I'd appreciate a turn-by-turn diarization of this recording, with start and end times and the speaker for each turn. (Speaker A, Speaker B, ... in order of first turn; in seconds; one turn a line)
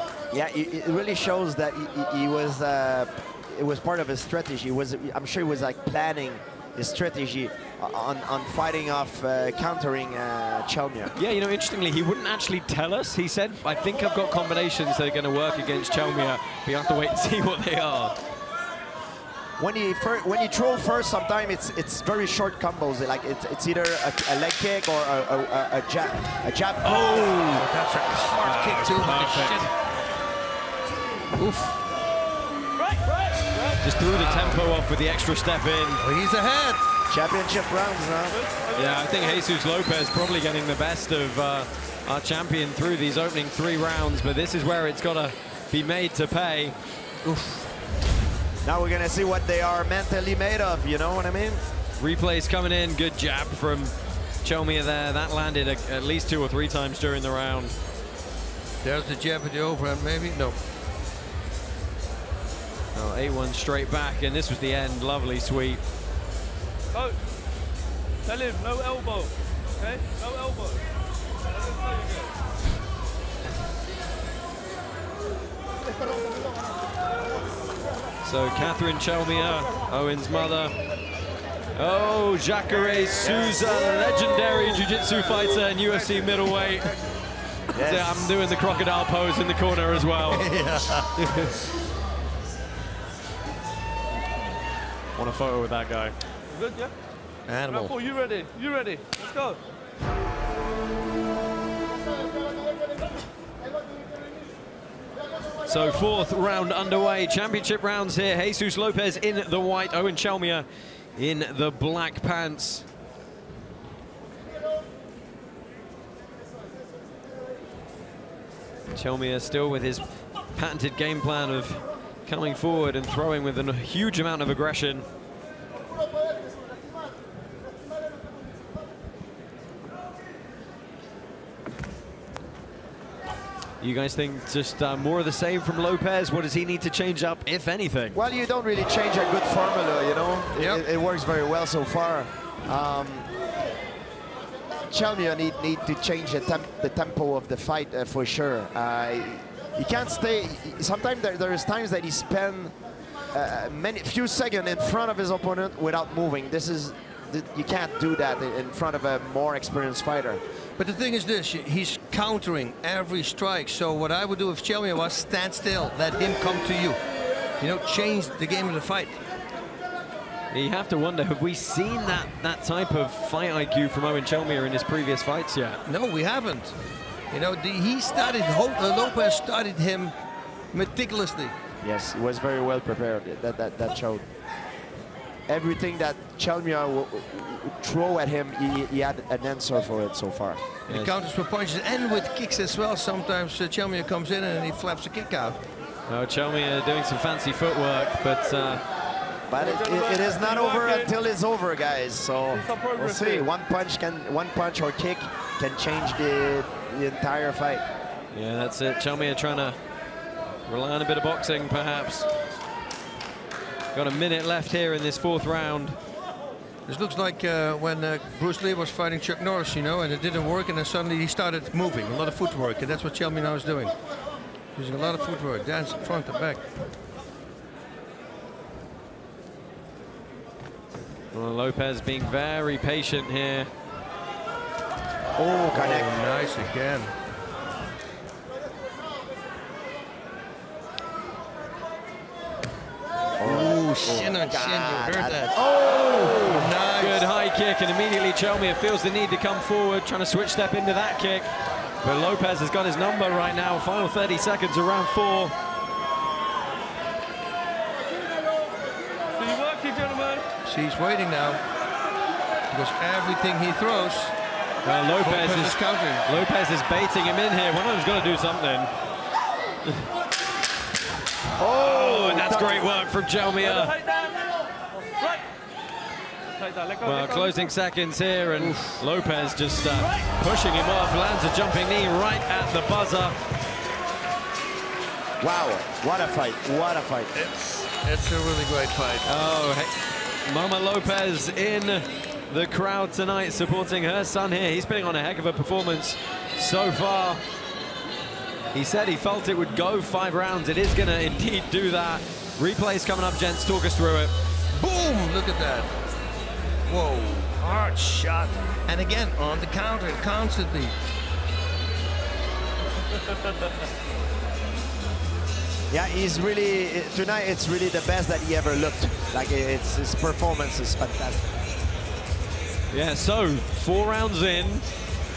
Speaker A: 0.3-11.1
Speaker B: 11.2-18.2
Speaker A: 19.6-27.6
Speaker B: 26.9-27.6
Speaker C: 27.4-29.7
Speaker B: 28.4-29.7
Speaker C: 31.3-31.8
Speaker D: 32.8-33.8
Speaker B: 33.8-36.0
Speaker C: 34.1-34.8
Speaker C: 36.0-36.8
Speaker A: 37.1-38.4
Speaker D: 38.3-39.4
Speaker B: 38.8-46.8
Speaker C: 47.2-47.6
Speaker A: 48.6-51.6
Speaker B: 52.0-53.9
Speaker B: 54.4-57.7
Speaker C: 58.8-60.6
Speaker B: 62.9-65.8
Speaker D: 68.2-70.8
Speaker D: 71.5-72.3
Speaker B: 78.2-80.8
Speaker B: 81.8-86.9
Speaker A: 83.2-83.9
Speaker A: 87.7-88.3
Speaker B: 87.8-90.5
Speaker C: 90.2-91.4
Speaker B: 91.2-91.5
Speaker B: 95.2-96.2
Speaker D: 96.5-96.9
Speaker C: 97.5-98.0
Speaker D: 97.7-99.6
Speaker B: 105.7-112.8
Speaker B: 118.9-125.0
Speaker B: 133.8-138.2
Speaker A: 138.1-143.3
Speaker C: 140.6-140.8
Speaker A: 144.9-152.8
Speaker A: 153.3-160.4
Speaker C: 160.8-167.0
Speaker C: 167.6-169.2
Speaker B: 170.5-175.8
Speaker C: 175.9-176.8
Speaker C: 177.3-180.1
Speaker C: 180.7-181.6
Speaker A: 181.8-184.2
Speaker A: 185.5-190.6
Speaker B: 190.9-191.1
Speaker C: 190.9-195.6
Speaker B: 196.1-198.8
Speaker A: 199.5-207.8
Speaker D: 199.6-201.1
Speaker D: 202.5-203.5
Speaker B: 208.3-209.8
Speaker B: 210.7-212.3
Speaker B: 213.9-216.0
Speaker C: 216.9-223.9
Speaker C: 224.8-226.6
Speaker B: 231.3-233.7
Speaker A: 235.4-236.1
Speaker C: 235.7-237.1
Speaker A: 243.4-246.6
Speaker C: 243.4-245.6
Speaker B: 245.9-251.5
Speaker C: 246.1-247.3
Speaker B: 252.0-255.5
Speaker D: 259.3-260.5
Speaker C: 260.6-261.6
Speaker C: 262.7-264.4
Speaker B: 264.8-268.9
Speaker C: 265.2-266.3
Speaker A: 271.6-272.8
Speaker B: 271.9-273.9
Speaker D: 272.0-272.4
Speaker D: 273.6-275.4
Speaker D: 276.6-277.7
Speaker B: 277.0-283.4
Speaker C: 278.6-279.0
Speaker D: 280.0-280.3
Speaker A: 285.4-287.3
Speaker C: 287.3-289.3
Speaker B: 289.3-289.9
Speaker B: 290.4-297.4
Speaker B: 298.7-304.3
Speaker C: 304.7-305.9
Speaker C: 306.9-310.9
Speaker A: 315.9-321.5
Speaker B: 322.9-324.9